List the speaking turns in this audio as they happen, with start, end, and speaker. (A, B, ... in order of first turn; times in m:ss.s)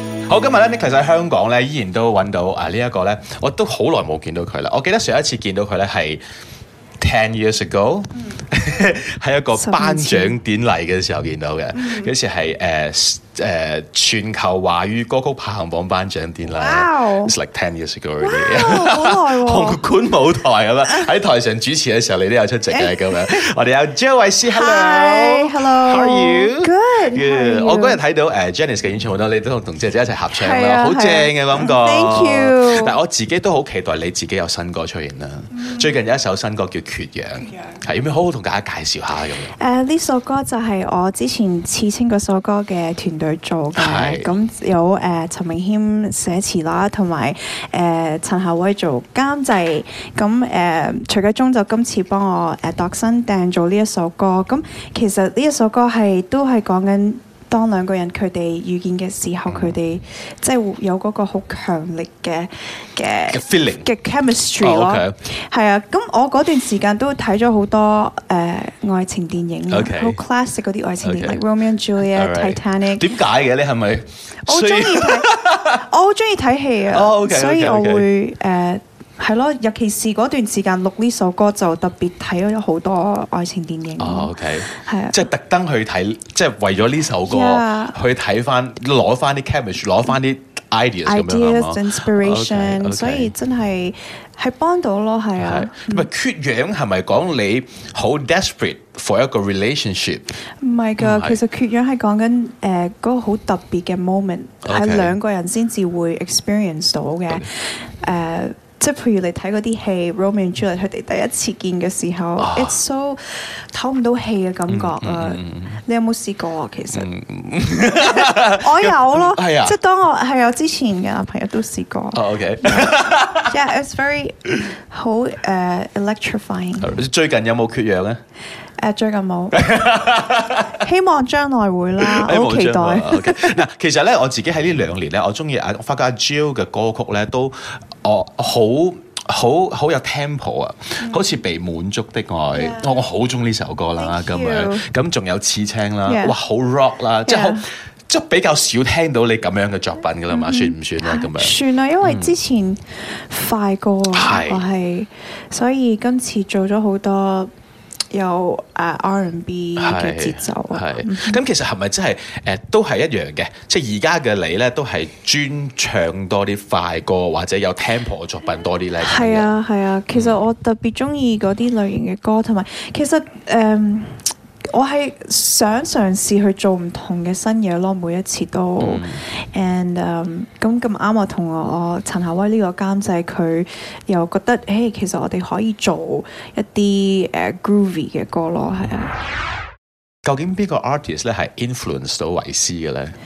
0:00.3-0:06.2 A
0:07.0-0:39.5 A
0:09.5-0:10.4 B
0:11.7-0:12.1 B
0:16.5-0:17.3 B
0:18.2-0:19.8 B
0:22.7-0:23.5 B
0:24.5-0:28.0 B
0:30.4-0:33.0 B
0:39.5-1:13.1 B
0:43.8-0:44.3 A
0:59.5-0:59.8 A
1:03.3-1:03.9 A
1:04.6-1:05.2 A
1:09.7-1:10.2 A
1:11.0-1:11.4 A
1:12.0-1:15.8 A
1:14.4-1:25.2 B
1:16.9-1:18.1 A
1:24.0-1:33.3 A
1:27.2-1:28.0 B
1:31.0-1:36.1 B
1:35.4-1:40.3 A
1:40.6-1:57.1 B
1:41.0-1:41.4 A
1:44.6-1:45.1 A
1:52.4-1:52.8 A
1:54.7-1:55.8 A
1:56.9-1:59.8 A
1:57.7-2:07.0 B
2:02.1-2:03.6 A
2:06.8-2:08.2 A
2:08.8-2:09.8 B
2:09.5-2:10.8 A
2:10.7-2:13.6 B
2:12.0-2:32.3 A
2:22.5-2:23.0 B
2:24.0-2:24.9 B
2:26.0-2:26.4 B
2:27.3-2:27.6 B
2:30.3-2:37.5 B
2:34.1-2:34.7 A
2:38.1-2:41.4 B
2:39.8-2:49.5 A
2:49.0-3:09.2 B
2:50.1-2:50.4 A
2:58.8-2:59.2 A
3:10.2-3:13.2 A